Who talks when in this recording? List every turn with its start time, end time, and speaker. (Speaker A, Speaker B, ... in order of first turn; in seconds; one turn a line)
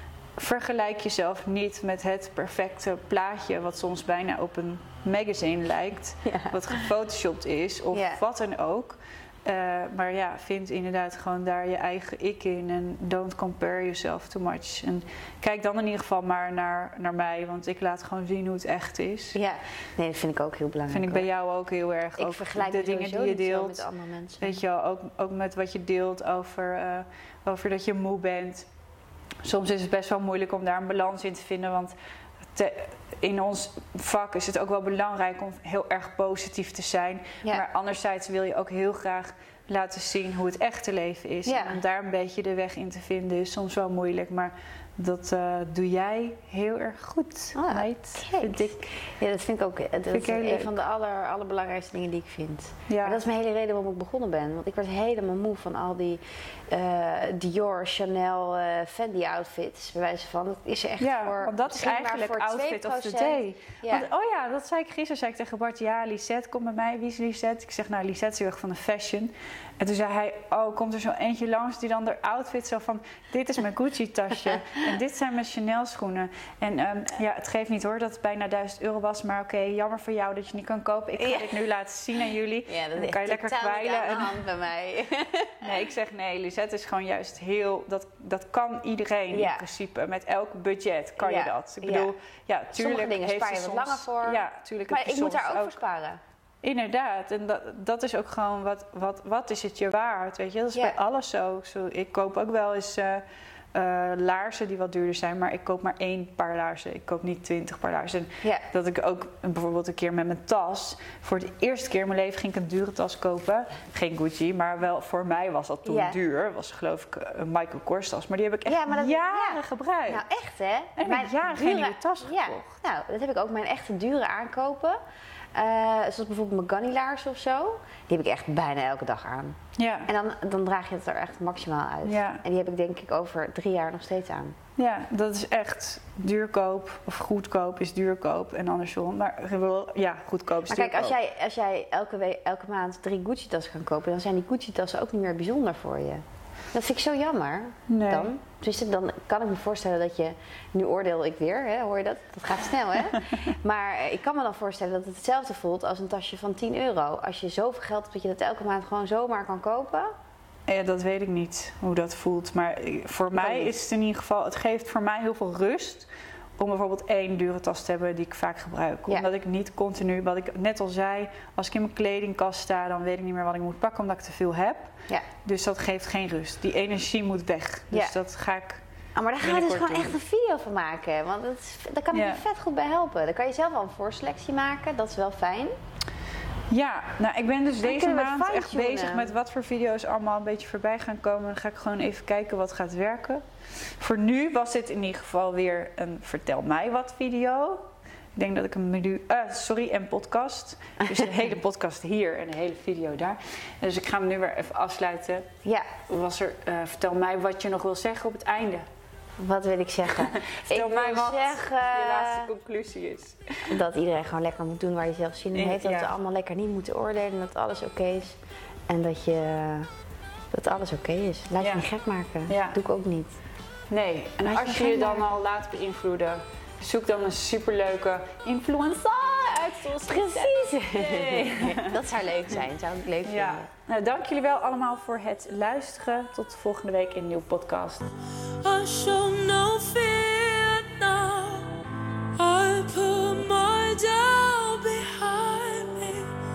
Speaker A: 0.4-19.4
Speaker B: 6.2-6.8
Speaker B: 7.9-8.2
Speaker B: 19.4-21.3
Speaker A: 20.9-23.9
Speaker B: 22.2-24.6
Speaker A: 24.4-28.7
Speaker A: 29.4-31.9
Speaker A: 32.5-48.8
Speaker B: 41.5-41.8
Speaker B: 47.5-64.1
Speaker A: 50.1-50.8
Speaker A: 52.9-53.2
Speaker A: 61.0-84.4
Speaker B: 81.2-81.6
Speaker B: 82.7-85.8
Speaker A: 85.6-95.8
Speaker B: 89.3-89.6
Speaker B: 91.2-92.1
Speaker B: 92.7-96.2
Speaker A: 96.6-120.2
Speaker B: 115.8-116.2
Speaker B: 118.7-125.0
Speaker A: 121.0-122.7
Speaker B: 125.5-134.6
Speaker A: 129.8-130.1
Speaker A: 132.0-132.4
Speaker A: 134.8-141.2
Speaker B: 140.7-160.1
Speaker A: 147.9-148.3
Speaker A: 160.7-178.8
Speaker B: 163.3-163.8
Speaker B: 179.2-185.8
Speaker A: 179.4-180.2
Speaker A: 182.1-182.4
Speaker A: 186.7-193.4
Speaker B: 187.8-189.3
Speaker A: 194.0-205.5
Speaker A: 206.1-208.9
Speaker B: 209.4-212.5
Speaker A: 210.2-213.7
Speaker B: 213.7-219.9
Speaker A: 215.5-216.1
Speaker B: 220.5-223.4
Speaker A: 221.6-221.9
Speaker A: 222.5-222.8
Speaker A: 223.9-232.0
Speaker B: 224.5-225.3
Speaker B: 229.9-233.7
Speaker A: 233.2-238.1
Speaker C: 238.6-241.7
Speaker C: 242.4-246.3